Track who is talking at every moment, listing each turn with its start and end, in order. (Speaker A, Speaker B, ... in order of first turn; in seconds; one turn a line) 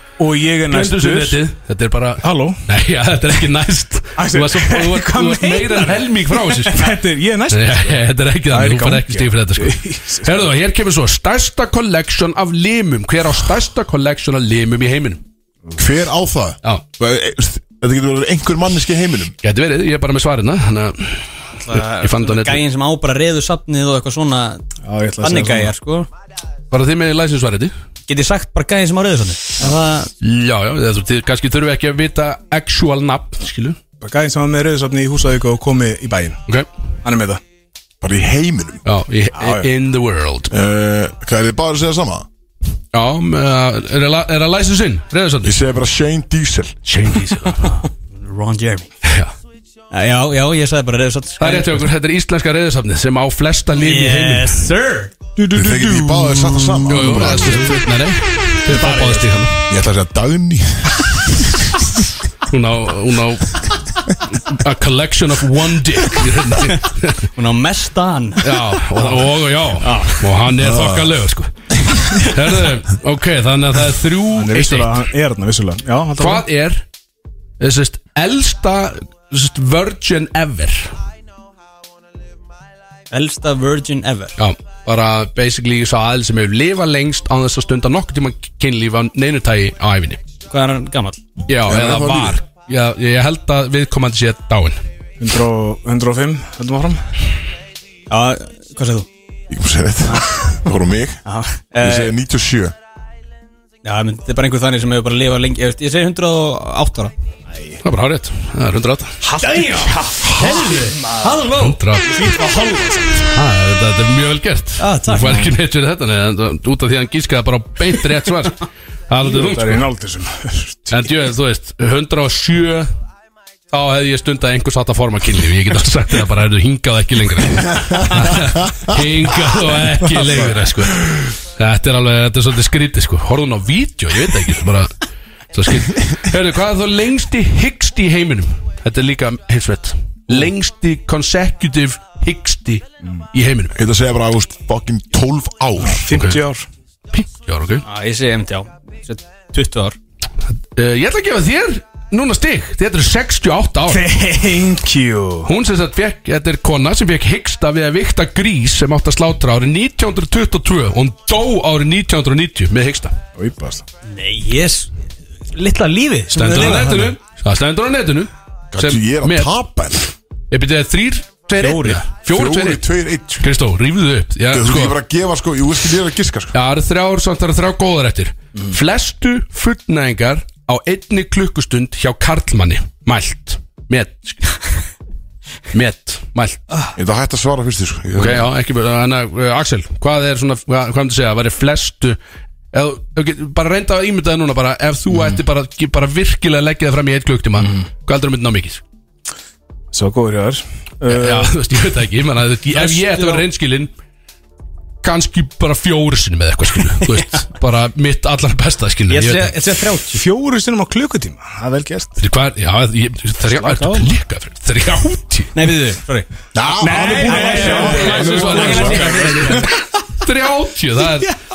Speaker A: 0.2-1.4
Speaker B: 0.7-7.0
Speaker A: 2.2-2.6
Speaker A: 4.2-10.5
Speaker B: 7.5-15.2
Speaker C: 15.8-19.4
Speaker B: 19.4-22.6
Speaker D: 21.6-24.6
Speaker A: 24.9-25.7
Speaker D: 25.2-26.1
Speaker B: 26.7-27.7
Speaker D: 28.1-30.1
Speaker B: 30.2-33.8
Speaker A: 34.0-36.4
Speaker A: 37.0-37.4
Speaker C: 38.0-38.8
Speaker B: 38.9-40.5
Speaker A: 39.4-39.7
Speaker C: 40.5-42.3
Speaker B: 42.9-45.6
Speaker C: 45.4-46.8
Speaker B: 46.9-47.8
Speaker D: 47.6-48.9
Speaker B: 49.0-49.3
Speaker D: 49.9-51.9
Speaker B: 51.4-54.7
Speaker D: 53.8-55.1
Speaker A: 55.4-57.8
Speaker C: 55.5-57.9
Speaker B: 56.9-59.6
Speaker D: 58.7-59.3
Speaker C: 59.7-61.5
Speaker B: 62.5-67.2
Speaker D: 67.4-69.2
Speaker B: 68.4-71.5
Speaker D: 69.8-70.2
Speaker C: 70.6-71.1
Speaker B: 72.0-75.1
Speaker A: 74.3-76.5
Speaker B: 76.2-76.8
Speaker B: 77.6-80.9
Speaker D: 83.1-84.3
Speaker B: 84.4-90.2
Speaker D: 90.5-91.2
Speaker B: 91.5-94.8
Speaker C: 91.6-92.4
Speaker A: 95.2-97.0
Speaker D: 98.1-99.1
Speaker C: 99.5-101.2
Speaker D: 101.3-102.1
Speaker C: 101.8-102.8
Speaker D: 103.8-107.1
Speaker A: 107.5-107.8
Speaker B: 107.8-109.2
Speaker A: 109.2-111.5
Speaker D: 109.4-111.8
Speaker B: 111.5-112.3
Speaker A: 112.0-113.3
Speaker B: 113.3-119.9
Speaker D: 114.8-115.5
Speaker A: 119.2-121.0
Speaker B: 120.9-122.9
Speaker B: 123.7-134.9
Speaker B: 135.5-143.8
Speaker C: 143.8-146.1
Speaker A: 145.8-146.7
Speaker B: 146.1-146.4
Speaker B: 147.1-147.8
Speaker D: 147.8-150.0
Speaker B: 150.7-154.1
Speaker A: 153.9-155.5
Speaker B: 155.5-163.2
Speaker A: 163.4-163.8
Speaker D: 164.1-164.9
Speaker D: 165.5-167.2
Speaker B: 166.3-169.5
Speaker C: 168.7-170.1
Speaker B: 170.5-172.8
Speaker D: 171.6-172.0
Speaker C: 172.3-173.5
Speaker B: 173.4-175.0
Speaker C: 174.5-176.6
Speaker B: 176.5-184.7
Speaker B: 185.7-186.6
Speaker C: 186.9-188.5
Speaker B: 188.2-192.2
Speaker B: 192.7-198.8
Speaker A: 197.6-197.9
Speaker A: 199.9-201.5
Speaker B: 201.1-203.9
Speaker D: 202.7-203.4
Speaker B: 205.0-209.6
Speaker D: 207.0-207.4
Speaker D: 209.1-210.2
Speaker A: 210.1-212.2
Speaker B: 212.2-215.6
Speaker A: 213.5-214.1
Speaker D: 215.5-216.3
Speaker C: 216.5-219.3
Speaker A: 216.8-219.8
Speaker D: 217.0-219.7
Speaker B: 217.2-221.3